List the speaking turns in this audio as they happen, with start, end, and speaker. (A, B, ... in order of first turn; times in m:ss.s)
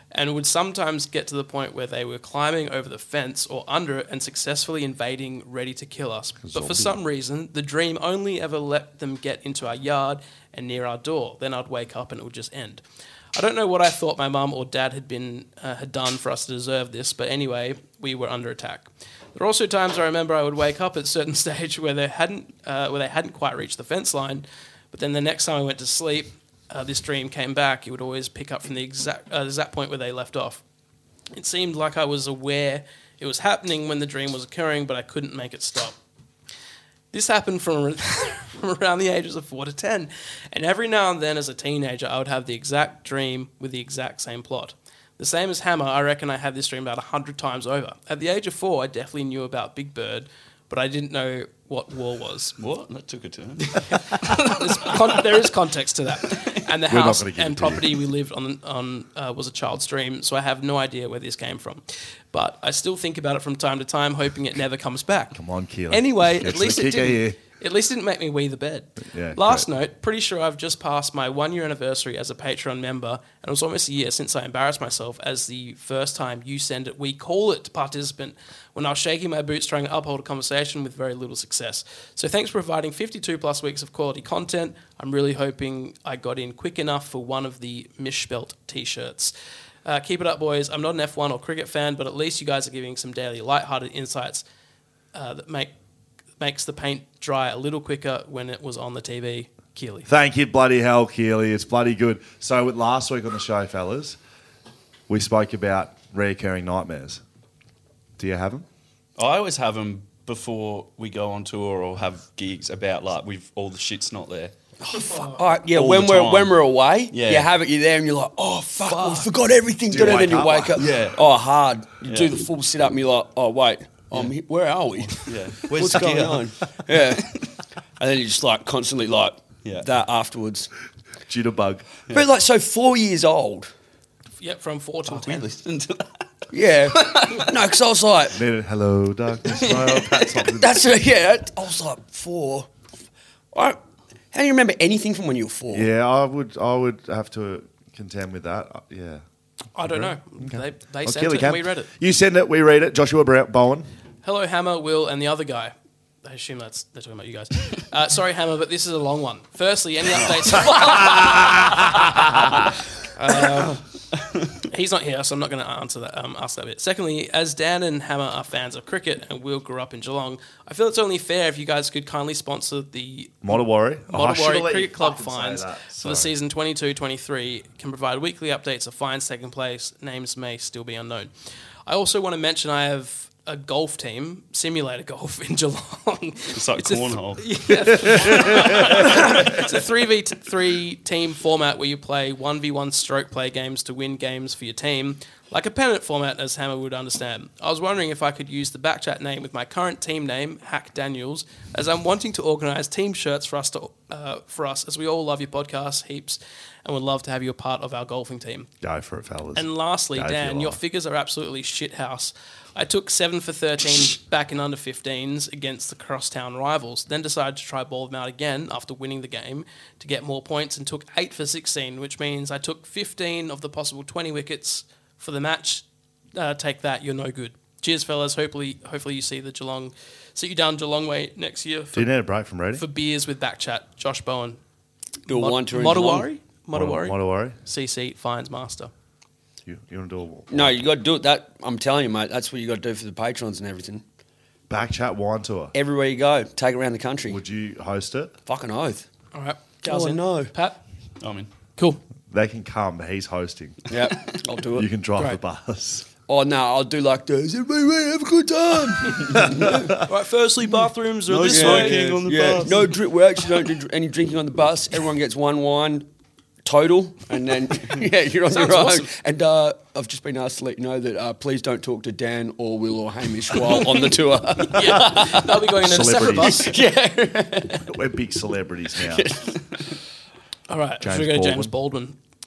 0:00.1-0:12.8 A
0:06.4-0:07.0 B
0:13.4-0:30.6 A
0:31.3-0:36.0 A
0:37.1-0:52.6 A
0:52.6-0:55.2 C
0:53.6-1:05.4 A
0:56.9-0:57.9 B
1:05.3-1:07.4 B
1:05.9-1:29.3 A
1:09.1-1:09.7 B
1:29.8-1:34.4 A
1:35.1-1:35.7 A
1:36.4-1:40.1 A
1:40.1-1:44.2 B
1:45.1-1:47.2 B
1:48.2-1:48.7 B
1:49.2-1:54.5 C
1:54.8-2:07.4 D
1:55.1-1:55.4 A
1:55.7-1:57.5 C
1:58.8-1:59.3 C
1:59.9-2:00.8 B
2:00.0-2:01.2 C
2:02.1-2:02.4 C
2:05.1-2:06.5 C
2:08.0-2:10.7 D
2:11.3-2:11.9 B
2:12.1-2:13.7 D
2:14.4-2:15.5 A
2:15.1-2:16.2 C
2:16.5-2:18.4 D
2:17.0-2:17.4 C
2:18.3-2:20.8 B
2:20.4-2:22.7 D
2:23.5-2:23.8 D
2:24.3-2:25.9 D
2:25.7-2:29.2 B
2:29.8-2:31.9 A
2:29.8-2:33.9 B
2:34.2-2:35.7 A
2:36.2-2:42.6 A
2:40.2-2:40.6 C
2:40.8-2:42.5 B
2:43.2-2:43.8 A
2:44.7-3:01.3 A
2:53.4-2:56.3 B
3:01.9-3:28.7 A
3:06.5-3:07.5 C
3:07.8-3:09.6 B
3:09.2-3:09.6 C
3:28.8-3:30.8 B
3:29.6-3:52.1 A
3:51.9-3:52.8 B
3:52.7-3:54.6 A
3:55.3-3:56.3 D
3:55.3-3:58.9 A
3:56.7-3:57.6 B
3:59.6-4:00.8 B
4:00.5-4:04.0 D
4:04.7-4:05.7 B
4:05.7-4:07.4 D
4:07.3-4:08.3 B
4:08.5-4:09.1 D
4:09.3-4:10.8 A
4:09.8-4:10.5 D
4:11.2-4:11.5 C
4:12.3-4:13.8 B
4:13.9-4:14.9 D
4:14.8-4:16.1 B
4:16.3-4:20.0 D
4:19.4-4:19.9 B
4:20.0-4:22.2 A
4:21.3-4:22.9 C
4:21.4-4:26.1 D
4:26.6-4:35.6 D
4:28.5-4:29.1 A
4:33.6-4:36.8 A
4:35.8-4:36.7 B
4:36.2-4:37.9 D
4:37.9-4:39.2 B
4:39.1-4:39.6 D
4:40.7-4:42.2 A
4:41.0-4:41.7 B